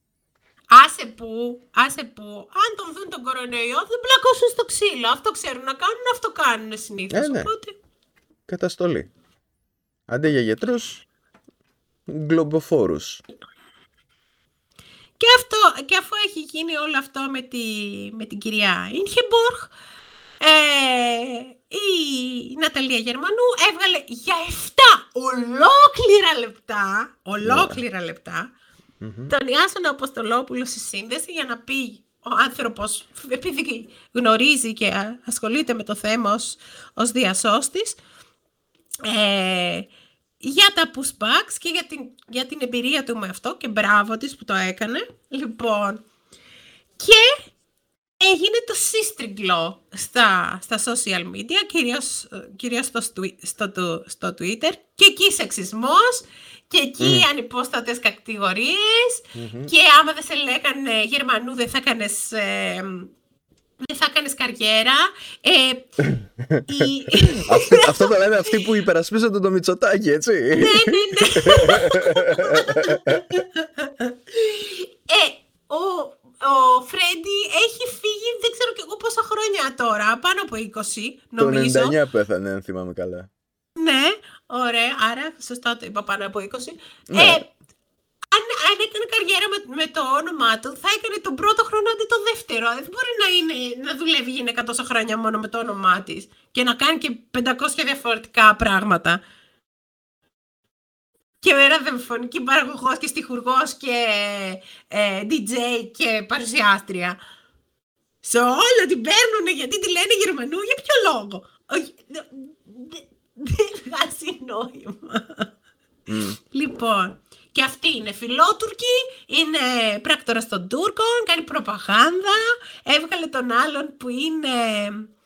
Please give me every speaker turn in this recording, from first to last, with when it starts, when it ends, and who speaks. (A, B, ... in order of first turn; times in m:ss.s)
0:00.7-0:07.8 A
0:07.1-0:07.5 B
0:08.5-0:09.1 B
0:10.1-0:11.0 B
0:12.1-0:13.2 B
0:15.2-0:19.7 A
0:20.4-0:28.5 A
0:27.4-0:27.8 B
0:29.0-0:29.3 B
0:29.3-0:38.0 A
0:39.0-0:39.9 A
0:40.4-0:46.0 A
0:47.0-0:47.4 A
0:48.2-1:03.1 A
0:57.0-0:57.3 B
0:59.4-0:59.7 B
1:03.8-1:06.0 A
1:06.1-1:13.3 B
1:06.7-1:08.5 A
1:10.5-1:22.0 A
1:21.4-1:23.3 B
1:23.8-1:27.5 A
1:27.1-1:27.4 B
1:28.3-1:39.2 A
1:41.4-1:47.2 A
1:48.2-1:55.5 A
1:56.1-1:56.4 B
1:56.4-2:05.1 A